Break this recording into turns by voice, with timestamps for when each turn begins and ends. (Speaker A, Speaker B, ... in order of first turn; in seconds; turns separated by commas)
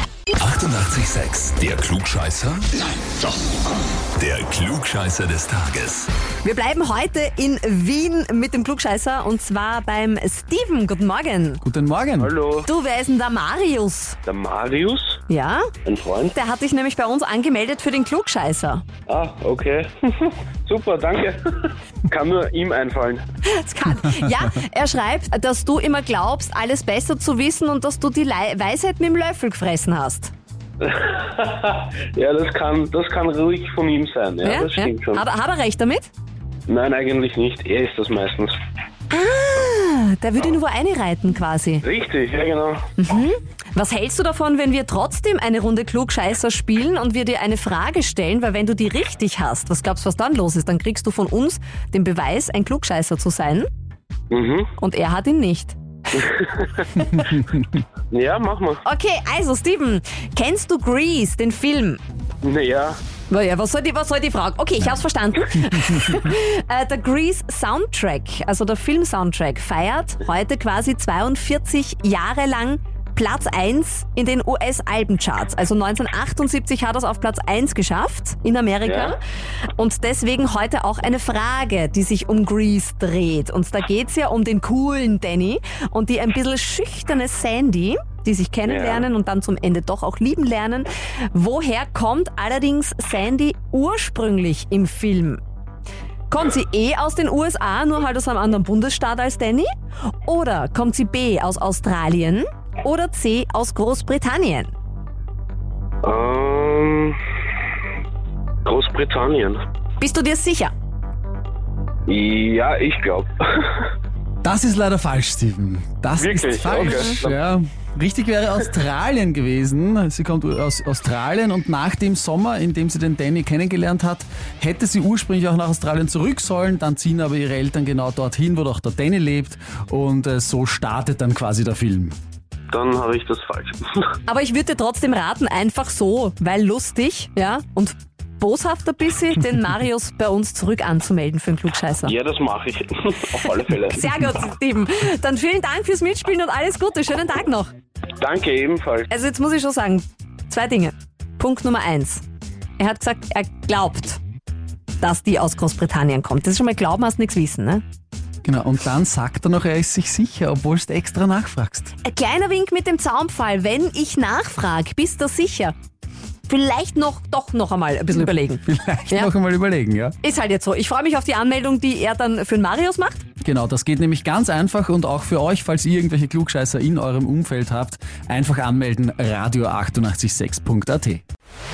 Speaker A: 0.4-2.7, Speaker A: 4.2-6.1, Speaker B: 6.4-11.6, Speaker C: 11.6-12.3, Speaker D: 12.2-12.7, Speaker B: 12.6-14.2, Speaker D: 14.2-15.2, Speaker B: 15.3-15.7, Speaker D: 15.8-16.3, Speaker B: 16.3-18.8, Speaker D: 19.1-23.2, Speaker B: 23.4-30.3, Speaker D: 30.8-35.2, Speaker B: 34.4-36.1, Speaker D: 36.7-38.5, Speaker B: 39.1-41.8, Speaker D: 41.8-42.9, Speaker B: 43.0-53.7, Speaker D: 54.3-54.7, Speaker B: 54.8-56.2, Speaker D: 56.1-57.4, Speaker D: 58.1-58.8, Speaker B: 58.8-62.0, Speaker D: 62.4-63.0, Speaker B: 63.3-79.2, Speaker D: 78.8-79.1, Speaker B: 79.8-95.4, Speaker D: 88.7-89.0, Speaker B: 96.3-99.7, Speaker B: 100.2-104.7, Speaker D: 106.0-107.2, Speaker D: 108.6-109.6, Speaker B: 110.0-110.7, Speaker D: 112.1-113.8, Speaker C: 114.4-132.1, Speaker D: 116.2-117.5, Speaker B: 116.8-117.2, Speaker D: 132.7-134.1, Speaker B: 134.3-142.1, Speaker D: 142.0-144.2, Speaker B: 143.9-147.7, Speaker D: 148.2-149.1, Speaker B: 149.1-152.2, Speaker B: 152.8-154.2, Speaker B: 155.0-157.8, Speaker C: 158.4-161.9, Speaker B: 162.0-165.7, Speaker B: 166.5-169.3, Speaker C: 168.7-170.2, Speaker B: 170.2-173.2, Speaker C: 173.4-181.2